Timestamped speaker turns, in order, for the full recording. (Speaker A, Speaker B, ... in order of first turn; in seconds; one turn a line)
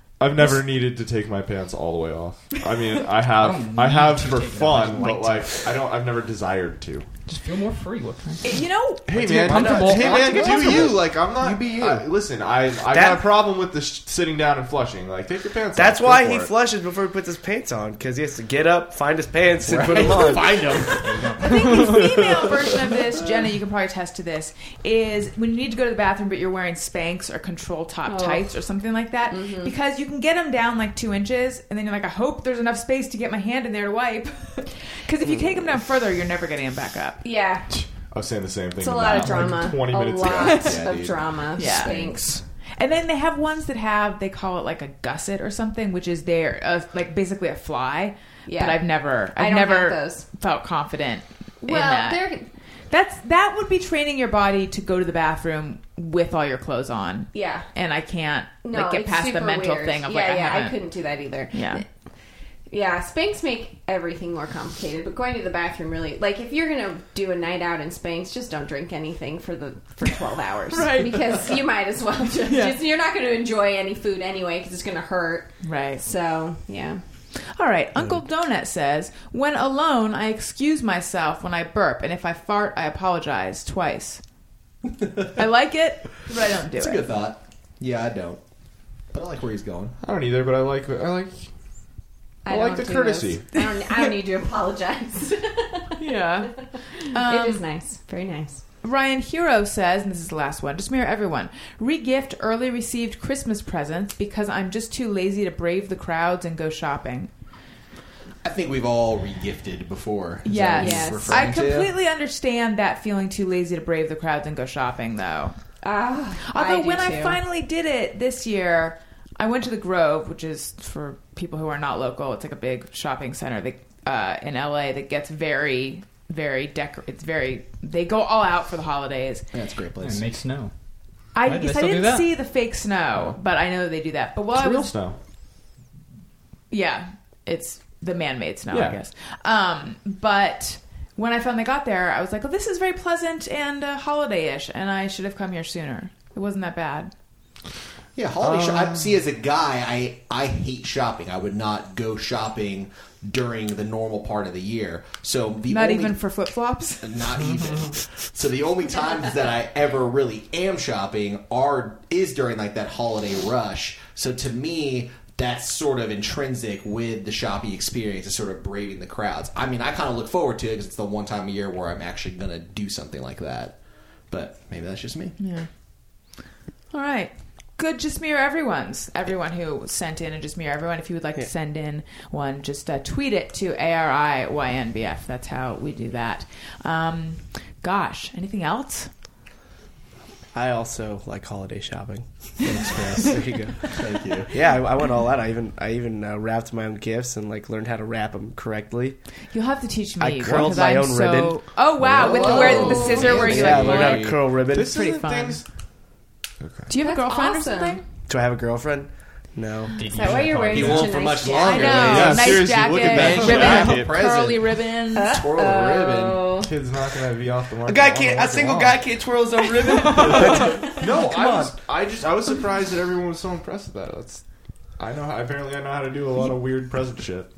Speaker A: 0.2-7.0
Speaker B: 3.4-5.6
Speaker B: 7.3-10.6
Speaker C: 8.4-9.1
Speaker A: 9.1-16.5
Speaker D: 9.5-12.1
Speaker E: 12.9-13.3
Speaker E: 15.7-20.8
Speaker D: 19.6-22.2
Speaker B: 21.0-22.0
Speaker C: 21.4-37.2
Speaker F: 28.1-28.5
Speaker F: 29.3-29.7
Speaker F: 37.2-37.7
Speaker A: 37.7-40.8
Speaker F: 38.8-42.4
Speaker D: 40.2-42.4
Speaker C: 40.2-40.8
Speaker C: 41.5-42.2
Speaker C: 42.8-52.3
Speaker F: 48.5-50.3
Speaker F: 51.6-52.5
Speaker C: 52.9-60.8
Speaker F: 57.3-57.6
Speaker F: 58.6-61.8
Speaker C: 61.5-61.8
Speaker F: 62.7-77.0
Speaker C: 70.7-71.5
Speaker C: 72.5-72.8
Speaker C: 75.6-76.0
Speaker C: 77.4-84.2
Speaker C: 85.3-87.1
Speaker D: 86.7-88.4
Speaker D: 89.1-89.9
Speaker A: 90.0-91.5
Speaker F: 92.4-96.0
Speaker A: 92.5-93.5
Speaker C: 96.0-97.6
Speaker F: 97.1-98.6
Speaker C: 98.8-107.3
Speaker D: 108.4-111.9
Speaker C: 110.4-115.6
Speaker F: 110.8-111.5
Speaker F: 115.8-117.4
Speaker C: 116.4-129.4
Speaker D: 129.5-130.3
Speaker B: 130.0-130.7
Speaker C: 131.3-134.9
Speaker B: 131.4-132.3
Speaker A: 134.5-135.2
Speaker C: 136.7-147.1
Speaker D: 148.1-156.2
Speaker A: 148.4-149.2
Speaker C: 155.7-157.1
Speaker D: 157.0-175.4
Speaker C: 175.4-175.7
Speaker C: 176.9-189.1
Speaker E: 190.5-193.9
Speaker D: 192.6-194.5
Speaker E: 194.5-199.2
Speaker C: 199.5-205.6
Speaker E: 200.2-201.6
Speaker D: 202.0-204.4
Speaker F: 202.2-203.6
Speaker E: 202.3-204.9
Speaker A: 204.7-205.6
Speaker A: 206.6-206.9
Speaker C: 206.9-208.0
Speaker F: 207.0-208.0
Speaker E: 208.3-210.0
Speaker B: 209.9-211.3
Speaker F: 210.0-212.3
Speaker D: 210.7-216.5
Speaker C: 211.6-215.3
Speaker A: 212.0-214.2
Speaker F: 215.1-216.7
Speaker A: 216.5-219.0
Speaker E: 217.8-221.7
Speaker A: 220.1-224.4
Speaker A: 225.0-227.5